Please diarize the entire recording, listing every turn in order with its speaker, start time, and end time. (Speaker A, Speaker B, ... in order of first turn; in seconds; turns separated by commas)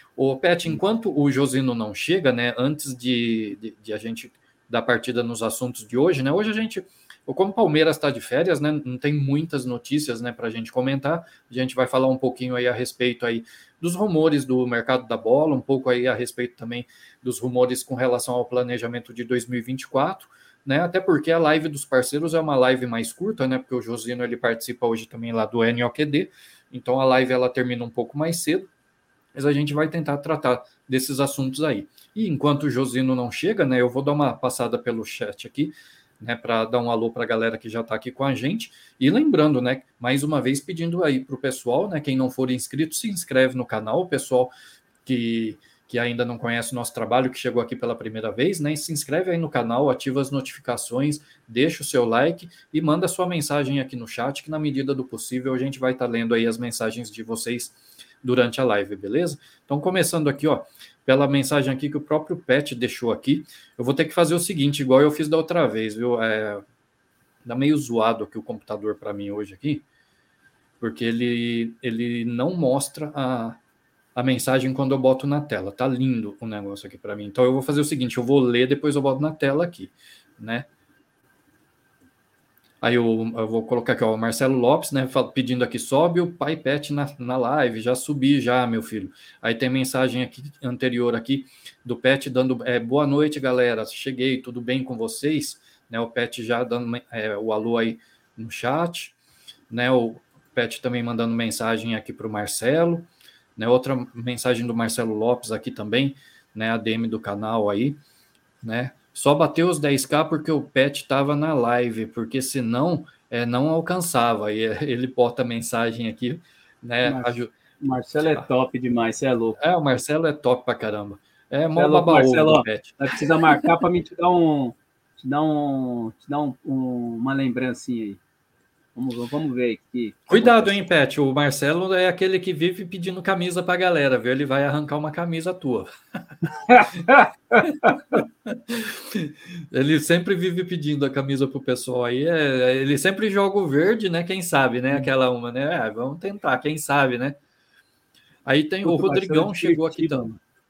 Speaker A: 0.2-28.7, Speaker A: 29.4-44.5, Speaker A: 45.1-66.6, Speaker A: 67.5-69.8, Speaker A: 70.8-73.6, Speaker A: 74.2-80.7, Speaker A: 82.8-99.2, Speaker A: 99.7-108.0, Speaker A: 108.6-117.5, Speaker B: 117.0-119.6, Speaker A: 119.6-123.6, Speaker B: 121.8-128.2, Speaker B: 129.0-130.9, Speaker A: 130.3-135.9, Speaker B: 136.7-137.9, Speaker A: 137.7-147.4, Speaker A: 148.5-150.2, Speaker B: 148.8-150.4